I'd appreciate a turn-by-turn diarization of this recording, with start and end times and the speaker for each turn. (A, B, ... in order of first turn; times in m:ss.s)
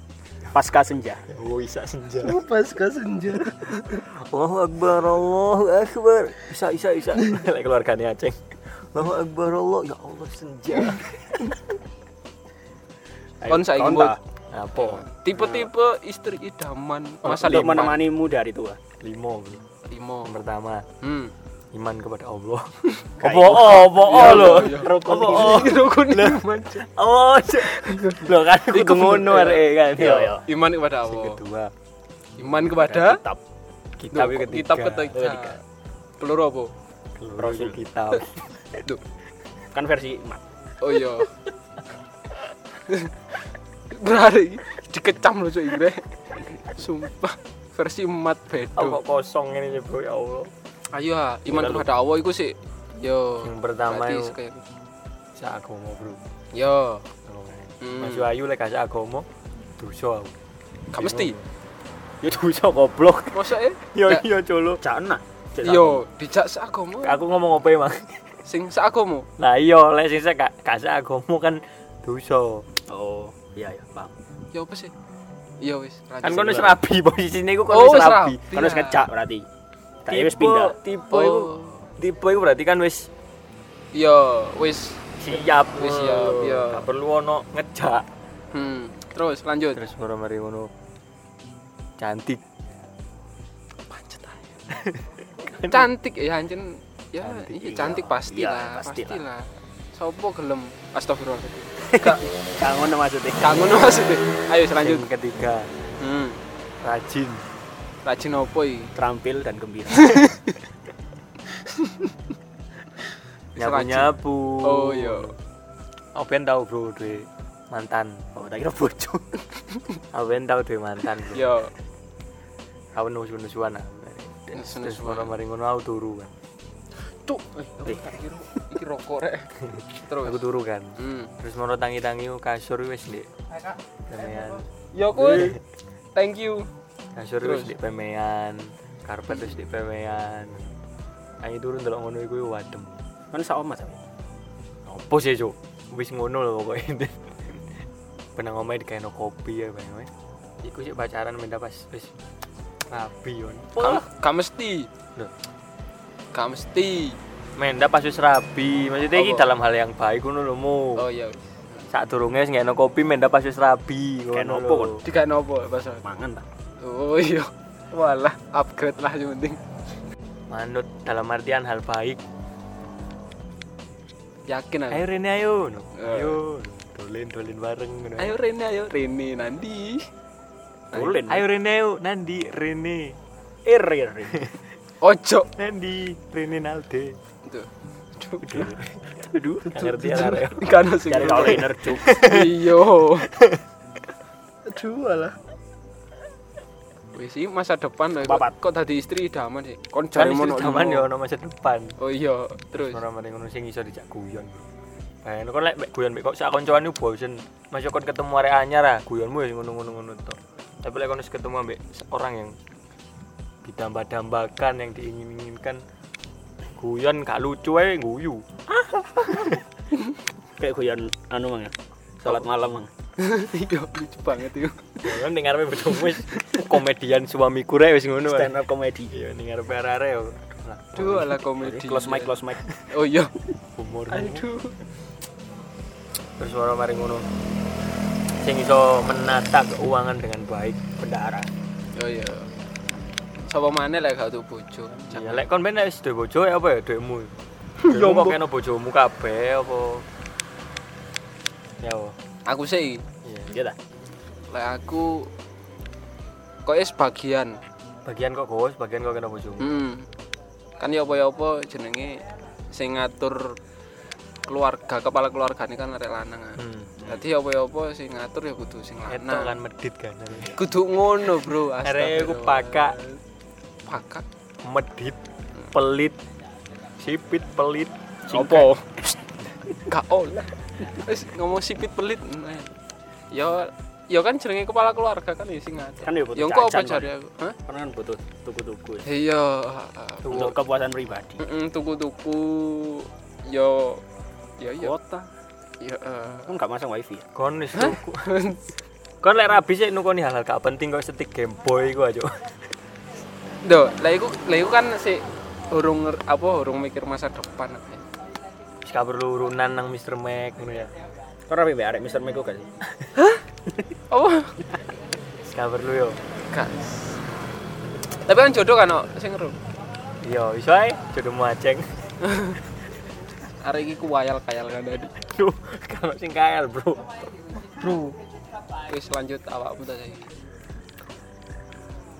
0:00.5-0:01.3 A
0:01.3-0:02.4 B
0:02.2-0:04.0 C
0:03.9-0:11.6 B
0:13.4-0:14.2 A
0:13.5-0:14.2 C
0:14.5-0:15.0 B
0:14.8-0:18.0 C
0:15.4-0:15.6 A
0:17.2-0:18.8 A
0:17.4-0:17.9 B
0:19.0-0:19.6 B
0:19.9-0:20.4 C
0:20.2-0:20.9 B
0:21.0-0:21.3 C
0:21.7-0:30.4 B
0:23.2-0:25.8 A
0:24.0-0:26.9 C
0:27.6-0:28.3 C
0:28.7-0:30.4 A
0:29.1-0:29.6 C
0:30.4-0:31.4 C
0:31.0-0:31.7 B
0:32.4-0:33.2 C
0:32.7-0:33.4 A
0:34.0-0:35.2 B
0:34.1-0:35.6 C
0:35.1-0:35.5 A
0:36.2-0:36.7 C
0:37.2-0:38.6 B
0:37.4-0:37.8 A
0:39.7-0:40.4 A
0:40.8-0:41.3 C
0:42.9-0:43.1 C
0:43.9-0:46.1 C
0:46.7-0:49.0 C
0:48.8-0:50.5 B
0:50.9-0:54.6 C
0:51.5-0:51.9 A
0:53.4-0:54.4 B
0:55.4-0:56.2 B
0:56.5-0:57.1 C
0:57.2-0:59.2 B
0:57.8-0:58.3 C
0:59.8-1:00.4 B
1:00.9-1:01.4 C
1:00.9-1:01.4 B
1:02.2-1:04.8 B
1:03.3-1:04.2 C
1:04.8-1:06.0 A
1:05.6-1:07.2 C
1:07.0-1:08.2 B
1:08.4-1:09.3 C
1:09.4-1:12.7 B
1:12.9-1:14.1 A
1:14.5-1:14.9 C
1:15.6-1:16.8 C
1:16.2-1:18.5 B
1:17.7-1:19.0 C
1:18.5-1:19.4 A
1:20.0-1:20.8 A
1:20.1-1:23.1 B
1:21.1-1:21.8 C
1:23.9-1:25.0 C
1:25.2-1:28.1 B
1:25.7-1:26.9 C
1:28.5-1:29.8 C
1:29.7-1:30.7 B
1:32.0-1:32.4 B
1:33.9-1:34.5 C
1:34.8-1:35.9 B
1:35.7-1:42.2 C
1:37.2-1:37.5 B
1:37.5-1:39.2 A
1:41.9-1:43.4 A
1:43.4-1:45.0 C
1:44.8-1:45.7 B
1:46.0-1:46.4 C
1:46.8-1:47.4 B
1:48.0-1:48.9 C
1:49.0-1:50.2 A
1:49.9-1:50.5 C
1:53.5-1:55.4 C
1:53.6-1:55.4 B
1:56.1-1:58.2 B
1:58.4-1:59.4 A
2:00.1-2:01.5 B
2:01.3-2:01.7 C
2:02.9-2:06.3 B
2:04.5-2:05.4 C
2:07.2-2:10.4 C
2:10.2-2:13.3 B
2:11.0-2:11.3 C
2:14.1-2:15.6 B
2:14.9-2:15.6 C
2:16.1-2:16.7 C
2:17.1-2:20.7 B
2:17.4-2:17.7 C
2:21.4-2:23.0 B
2:23.3-2:24.0 A
2:24.9-2:27.7 B
2:28.4-2:30.1 B
2:30.6-2:32.1 B
2:32.9-2:34.0 B
2:33.8-2:34.9 C
2:36.3-2:37.2 C
2:37.6-2:41.0 B
2:39.1-2:39.5 C
2:41.0-2:41.8 C
2:41.9-2:45.0 B
2:44.3-2:45.0 A
2:45.0-2:46.0 C
2:46.0-2:46.4 A
2:46.8-2:49.6 C
2:50.5-2:52.2 B
2:54.5-2:55.1 C
2:54.9-2:58.4 B
2:55.9-2:56.4 C
2:58.2-3:00.1 C
3:00.9-3:01.5 A
3:00.9-3:03.2 B
3:03.6-3:04.5 A
3:05.0-3:05.5 C
3:05.5-3:07.2 B
3:07.5-3:08.7 C
3:08.4-3:12.7 B
3:09.3-3:13.3 C
3:11.1-3:12.1 A
3:13.2-3:13.6 B
3:14.7-3:15.4 C
3:17.1-3:21.1 C
3:18.2-3:18.5 A
3:20.1-3:22.0 B
3:22.0-3:23.0 C
3:22.8-3:24.7 B
3:25.2-3:32.6 B
3:33.6-3:35.8 B
3:36.8-3:39.6 B
3:40.6-3:42.9 A
3:43.2-3:45.2 C
3:45.0-3:48.5 B
3:48.2-3:49.1 A
3:49.1-3:51.4 B
3:50.9-3:52.4 C
3:51.6-3:52.6 A
3:52.9-3:53.3 C
3:53.8-3:54.4 B
3:54.1-3:54.8 C
3:56.4-3:57.3 B
3:58.4-4:01.4 B
4:01.2-4:01.4 A
4:02.0-4:02.5 C
4:03.4-4:05.5 C
4:05.1-4:07.3 B
4:07.8-4:08.3 C
4:07.9-4:10.0 B
4:11.8-4:12.2 B
4:12.5-4:13.0 C
4:13.2-4:13.5 B
4:13.5-4:13.8 A
4:14.5-4:15.3 C
4:16.6-4:17.6 C
4:18.0-4:19.8 B
4:19.6-4:20.1 C
4:20.8-4:22.2 C
4:22.7-4:23.6 C
4:24.5-4:29.6 C
4:26.6-4:27.0 B
4:29.1-4:30.7 B
4:30.5-4:33.2 C
4:31.2-4:33.0 B
4:33.9-4:34.2 C
4:34.6-4:35.2 B
4:35.7-4:36.2 B
4:37.0-4:37.9 B
4:38.3-4:39.1 A
4:38.3-4:38.8 C
4:39.9-4:42.7 C
4:43.3-4:47.6 C
4:46.0-4:47.1 A
4:47.6-4:49.1 A
4:49.0-4:50.5 C
4:50.2-4:50.6 B
4:50.3-4:51.4 A
4:51.4-4:54.0 C
4:54.6-4:55.0 C
4:54.7-4:55.3 A
4:55.8-4:56.5 C
4:56.5-4:57.3 A
4:57.4-4:58.3 B
4:57.8-4:58.6 C
4:59.2-5:02.6 B
5:03.6-5:08.0 C
5:08.8-5:10.9 B
5:11.5-5:12.7 A
5:14.1-5:14.6 C
5:15.4-5:16.2 B
5:16.5-5:17.2 C
5:18.2-5:19.6 C
5:20.2-5:21.9 B
5:22.2-5:22.6 C
5:23.6-5:25.1 C
5:25.2-5:28.0 B
5:28.9-5:30.3 C